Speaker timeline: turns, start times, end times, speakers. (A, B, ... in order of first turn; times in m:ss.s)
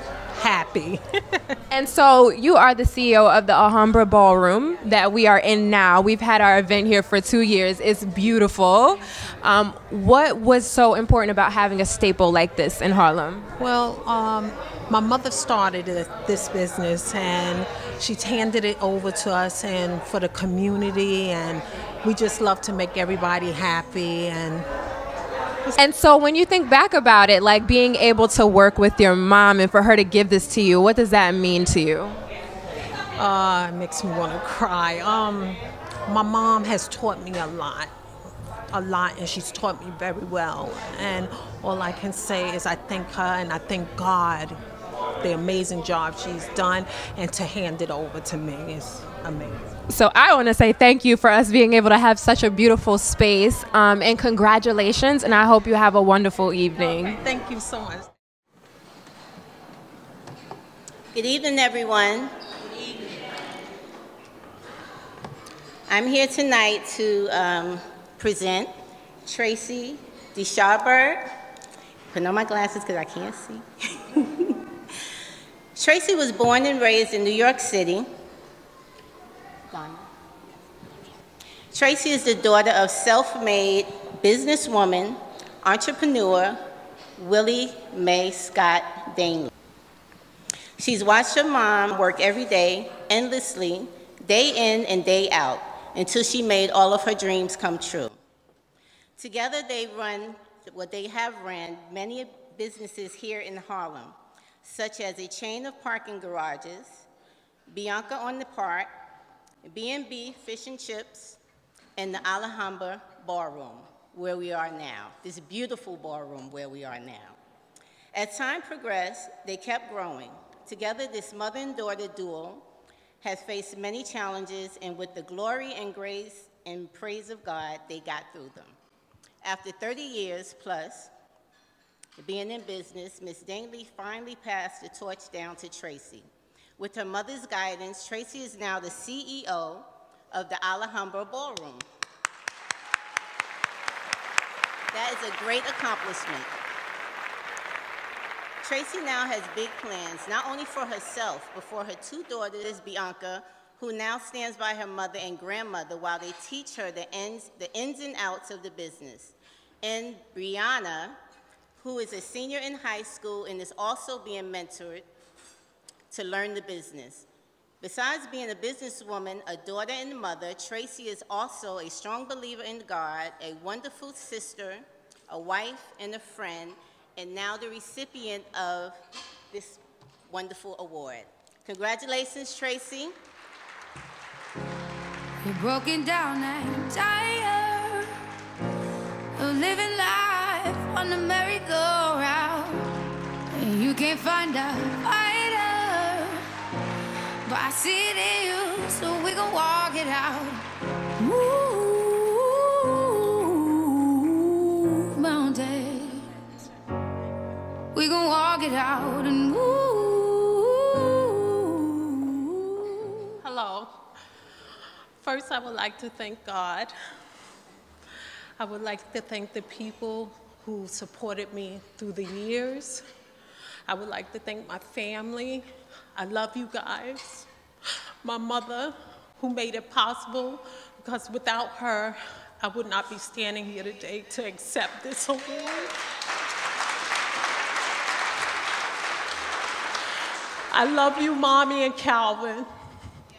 0:00.4-0:01.5 A
0:01.7-0:13.5 B
0:13.6-0:24.6 A
0:25.8-0:32.2 B
0:33.2-0:37.9 A
0:38.7-0:44.6 A
0:45.2-0:49.7 A
0:49.9-0:57.2 B
0:57.2-0:58.1 A
1:01.1-1:02.3 C
1:05.9-1:08.7 C
1:09.2-1:11.3 C
1:12.1-1:14.6 C
1:15.8-1:18.1 C
1:19.7-1:20.1 C
1:21.7-1:26.6 C
1:27.2-1:29.5 C
1:30.8-1:38.2 C
1:39.2-1:47.0 C
1:47.7-1:48.9 C
1:49.6-1:51.4 C
1:52.0-1:57.4 C
1:58.1-2:02.6 C
2:03.2-2:08.7 C
2:09.4-2:11.1 C
2:12.2-2:16.3 C
2:16.8-2:21.8 C
2:24.9-2:26.5 C
2:28.6-2:41.2 C
2:41.8-2:45.0 C
2:46.1-2:47.3 C
2:47.8-2:59.0 C
2:59.5-3:03.1 C
3:05.4-3:08.1 D
3:09.4-3:16.5 D
3:17.4-3:26.3 D
3:27.9-3:33.3 D
3:33.4-3:33.9 A
3:35.2-3:36.9 A
3:38.6-3:43.0 A
3:43.9-3:47.5 A
3:48.2-3:55.9 A
4:00.7-4:02.6 A